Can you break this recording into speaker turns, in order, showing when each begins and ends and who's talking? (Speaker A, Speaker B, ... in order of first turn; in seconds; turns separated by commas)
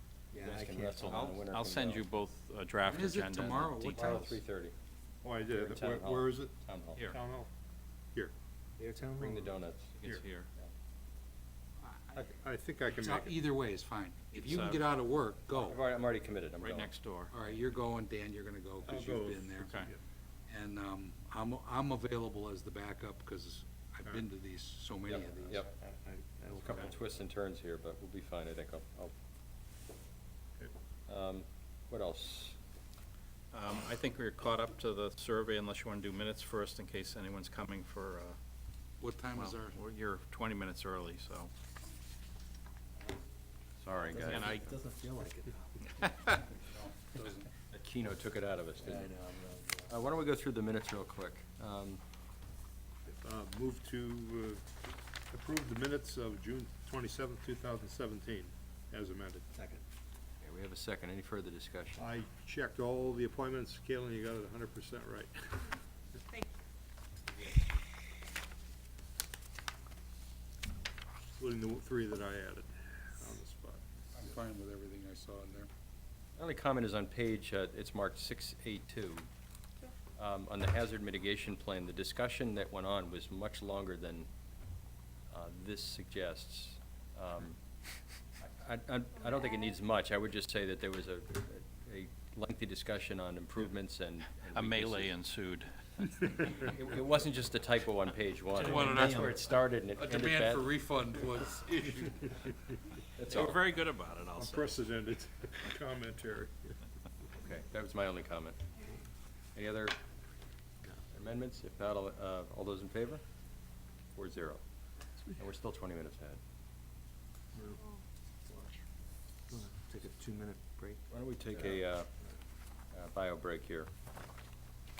Speaker A: 0.3-1.4, Speaker B: 0.3-2.0, Speaker C: 1.0-4.4, Speaker D: 2.8-4.3, Speaker B: 3.9-4.8, Speaker E: 5.2-7.5, Speaker B: 5.5-7.1, Speaker A: 8.8-9.5, Speaker B: 9.2-10.1, Speaker C: 10.0-10.5, Speaker E: 12.1-13.4, Speaker D: 12.9-15.8, Speaker C: 14.3-14.8, Speaker B: 15.5-16.9, Speaker C: 16.6-17.3, Speaker D: 17.3-19.9, Speaker E: 18.8-20.0, Speaker C: 19.6-19.9, Speaker D: 20.5-25.7, Speaker B: 25.1-25.7, Speaker E: 25.4-26.9, Speaker B: 26.6-29.1, Speaker B: 31.1-32.6, Speaker C: 33.5-38.4, Speaker D: 39.0-39.8, Speaker C: 39.4-41.5, Speaker B: 43.8-44.7, Speaker A: 44.0-45.8, Speaker C: 44.2-44.7, Speaker C: 46.0-46.3, Speaker D: 46.6-47.5, Speaker B: 47.7-49.2, Speaker A: 48.8-49.9, Speaker B: 49.9-52.0, Speaker E: 53.1-54.7, Speaker E: 55.3-59.5, Speaker A: 59.5-59.8, Speaker B: 60.4-62.0, Speaker E: 62.0-65.8, Speaker E: 71.3-73.8, Speaker D: 74.1-75.7, Speaker B: 76.4-79.3, Speaker B: 80.2-84.3, Speaker B: 85.3-87.6, Speaker B: 88.4-95.1, Speaker C: 94.5-95.7, Speaker B: 96.7-100.7, Speaker C: 98.5-99.1, Speaker D: 98.6-99.3, Speaker A: 98.6-99.4, Speaker D: 100.0-102.5, Speaker B: 103.2-103.6, Speaker C: 103.2-104.8, Speaker E: 104.4-106.7, Speaker B: 107.4-108.6, Speaker B: 109.5-110.0, Speaker B: 111.1-113.2, Speaker B: 114.2-114.6, Speaker B: 115.4-116.4, Speaker A: 117.6-118.0, Speaker A: 119.5-121.1, Speaker B: 121.1-122.1, Speaker B: 122.9-123.9